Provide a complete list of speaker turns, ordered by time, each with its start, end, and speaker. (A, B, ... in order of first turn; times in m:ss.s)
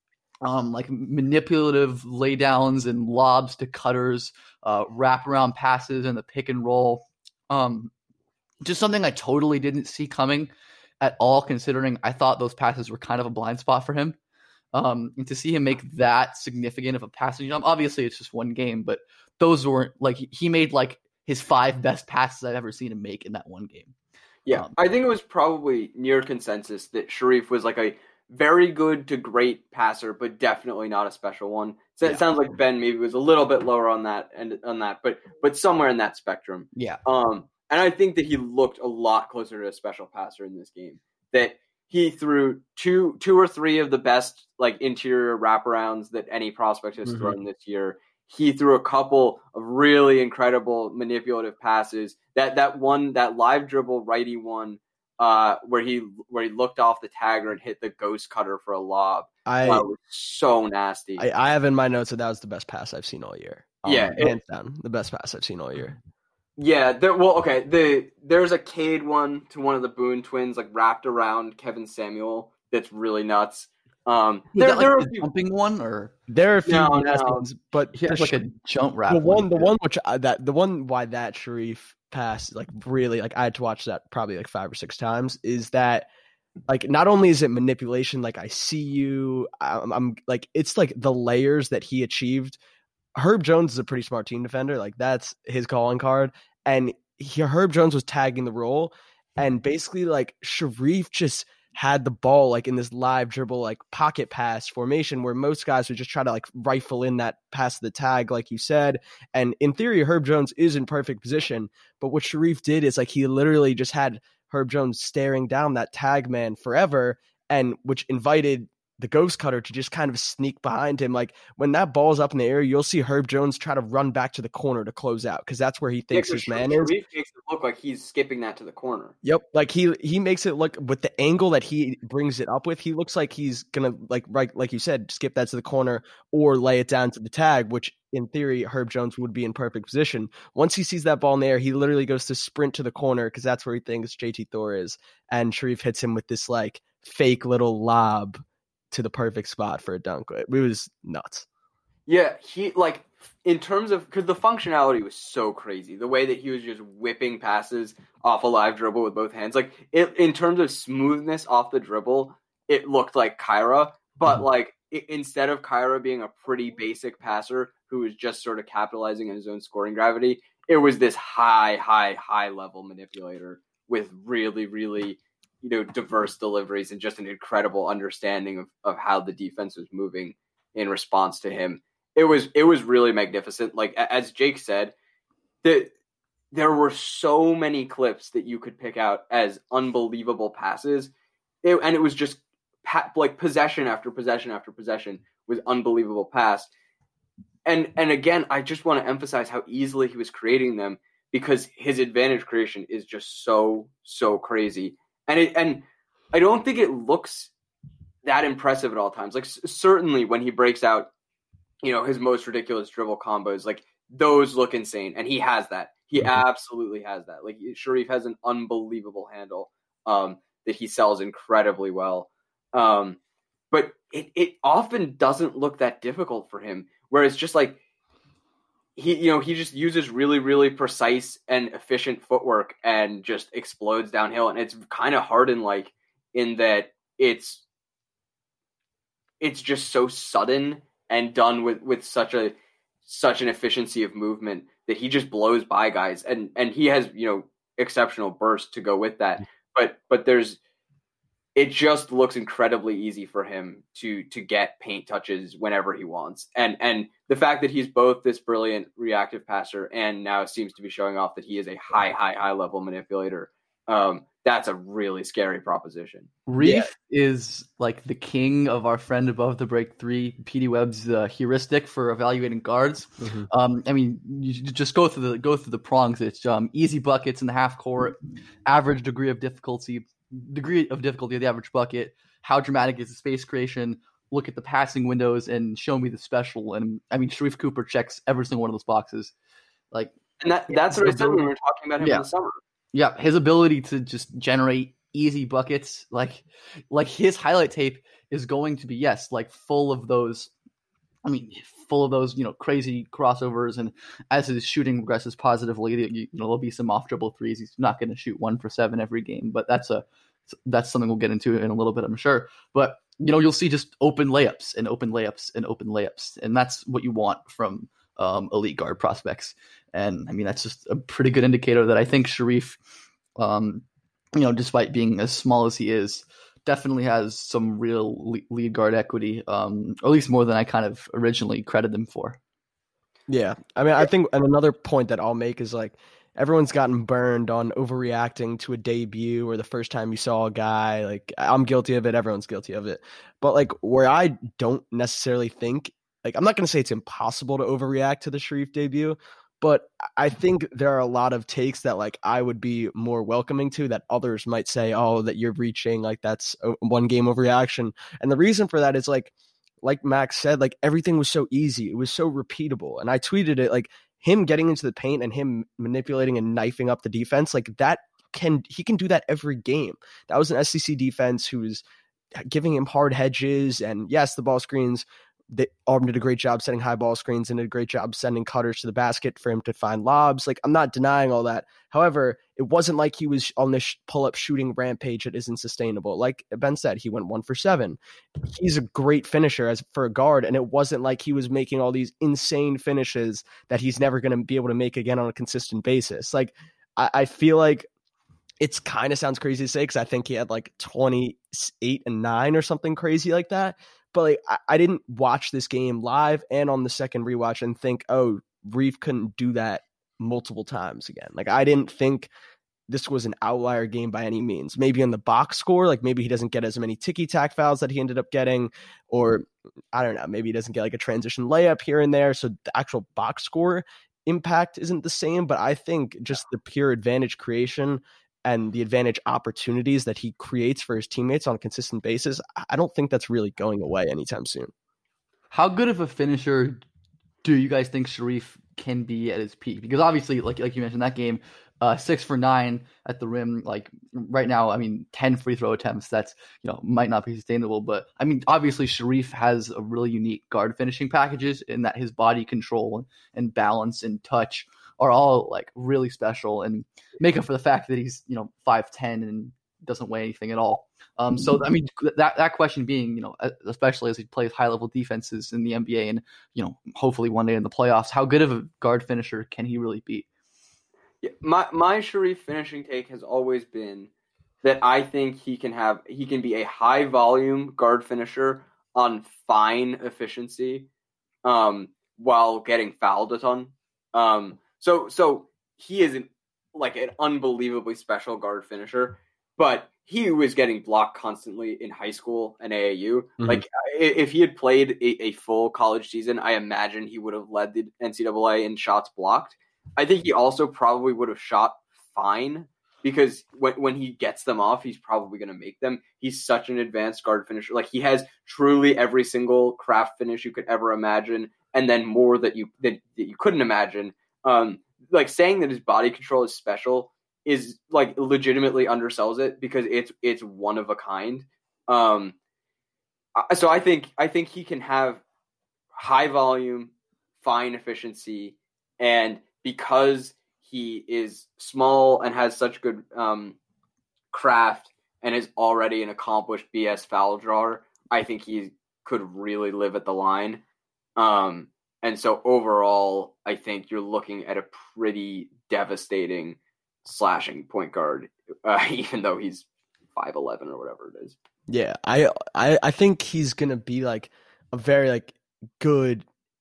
0:00.4-0:07.9 A
0:08.6-0:14.2 A
0:14.7-0:23.9 A
0:24.4-1:01.2 B
0:47.0-0:47.4 C
0:59.4-0:59.9 C
1:01.2-1:06.0 C
1:03.8-1:04.3 B
1:06.6-1:15.2 B
1:14.5-1:16.1 A
1:16.3-1:18.4 C
1:16.7-1:17.5 B
1:17.9-1:19.7 A
1:19.1-1:26.1 C
1:26.7-1:32.6 C
1:33.1-2:06.9 C
2:06.1-2:09.1 B
2:09.2-2:31.4 C
2:32.1-3:04.9 B
3:05.6-3:05.9 B
3:06.5-3:11.1 B
3:11.6-3:16.7 B
3:17.6-3:27.5 B
3:28.2-3:31.1 B
3:31.8-3:43.2 B
3:43.7-3:47.8 B
3:49.0-3:57.6 B
3:59.4-4:02.5 B
4:03.0-4:10.6 B
4:11.6-4:26.3 B
4:26.5-4:49.3 A
4:26.6-4:26.9 C
4:33.2-4:33.5 C
4:50.4-4:52.6 B
4:50.7-4:51.4 A
4:52.0-4:52.2 A
4:52.9-5:00.5 A
5:01.2-5:22.8 A
5:23.4-5:23.8 A
5:24.4-5:32.4 A
5:33.3-6:11.8 C
6:12.4-6:37.9 C
6:38.6-6:52.3 C
6:52.9-7:14.7 C
7:15.5-7:16.8 A
7:17.4-7:50.3 A
7:51.2-7:54.1 B
7:54.6-8:00.9 B
8:01.4-8:42.3 B
8:43.4-8:45.2 B
8:45.9-8:53.6 B
8:54.3-9:00.6 B
9:01.2-9:11.4 B
9:11.7-9:16.2 C